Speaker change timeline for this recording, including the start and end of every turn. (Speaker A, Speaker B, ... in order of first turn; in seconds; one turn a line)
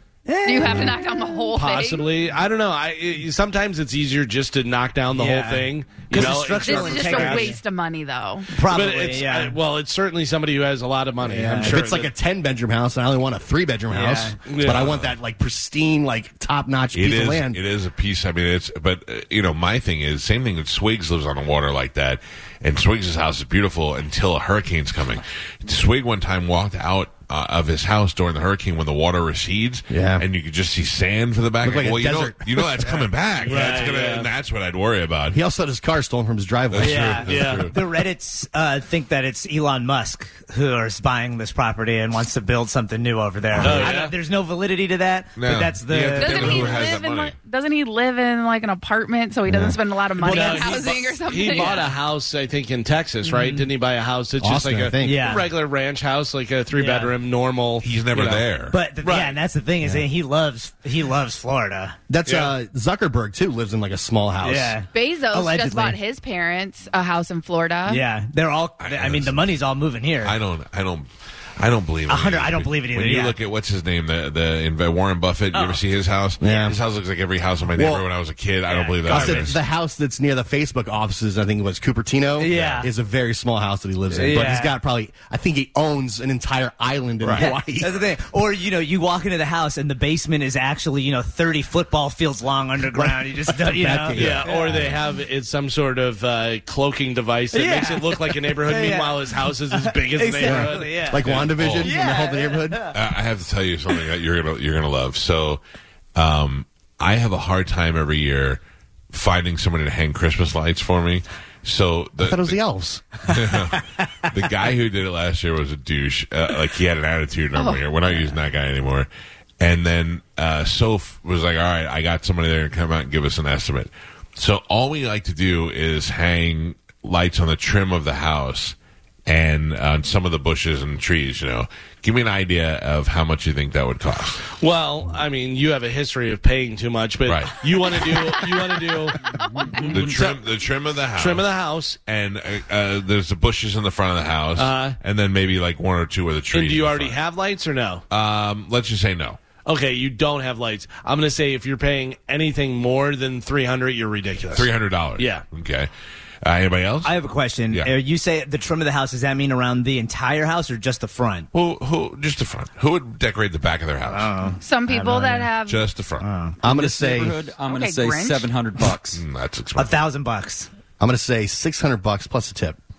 Speaker A: 0.3-1.0
Speaker B: 0.4-2.1
Speaker C: 1.5-7.5
Speaker A: 5.1-7.6
Speaker B: 6.6-8.5
Speaker A: 8.5-9.6
Speaker C: 8.6-12.1
Speaker A: 11.2-11.8
Speaker D: 11.6-17.6
Speaker A: 13.9-14.3
Speaker C: 14.4-14.8
Speaker E: 14.6-15.1
Speaker E: 16.9-35.4
Speaker D: 29.9-30.2
Speaker D: 31.6-33.1
Speaker C: 33.5-34.3
Speaker D: 35.3-37.3
Speaker E: 36.7-37.7
Speaker A: 36.8-46.8
Speaker C: 37.2-37.7
Speaker E: 43.6-43.9
Speaker C: 43.6-44.1
Speaker E: 45.4-47.3
Speaker B: 46.2-51.9
Speaker D: 49.5-49.8
Speaker C: 50.2-58.4
Speaker A: 50.2-50.9
Speaker A: 51.5-51.9
Speaker A: 53.3-53.6
Speaker D: 54.4-55.3
Speaker A: 55.0-55.5
Speaker A: 56.7-57.1
Speaker E: 57.8-58.8
Speaker A: 58.7-62.0
Speaker C: 59.0-59.4
Speaker D: 62.1-64.8
Speaker C: 62.2-62.5
Speaker A: 64.4-66.0
Speaker B: 64.9-68.0
Speaker A: 67.8-70.3
Speaker E: 68.8-69.5
Speaker E: 70.2-71.1
Speaker E: 71.6-79.5
Speaker A: 72.1-73.3
Speaker D: 76.4-76.8
Speaker D: 77.7-78.0
Speaker A: 78.7-79.5
Speaker D: 79.0-88.0
Speaker A: 82.4-82.9
Speaker E: 82.5-82.8
Speaker A: 84.1-84.7
Speaker A: 87.3-94.8
Speaker D: 93.0-94.8
Speaker C: 94.2-101.5
Speaker A: 97.5-102.9
Speaker D: 100.4-102.9
Speaker E: 101.3-101.9
Speaker E: 102.9-105.6
Speaker E: 106.2-108.6
Speaker E: 109.1-112.6
Speaker D: 112.2-113.6
Speaker E: 113.2-119.1
Speaker B: 117.5-117.8
Speaker E: 119.6-134.4
Speaker C: 134.6-139.2
Speaker E: 137.2-137.6
Speaker B: 139.3-140.0
Speaker E: 139.8-141.5
Speaker C: 140.1-140.4
Speaker C: 141.2-142.0
Speaker E: 142.1-147.2
Speaker C: 144.6-145.0
Speaker C: 146.5-148.0
Speaker E: 148.1-149.4
Speaker C: 149.6-155.4
Speaker E: 154.5-155.9
Speaker E: 156.4-157.1
Speaker A: 157.0-161.5
Speaker E: 161.5-164.3
Speaker A: 164.1-165.5
Speaker B: 164.6-165.8
Speaker E: 165.6-166.2
Speaker A: 166.2-166.6
Speaker D: 166.6-167.4
Speaker F: 166.6-169.2
Speaker B: 167.6-168.5
Speaker E: 169.1-169.9
Speaker A: 169.8-170.7
Speaker D: 171.0-172.8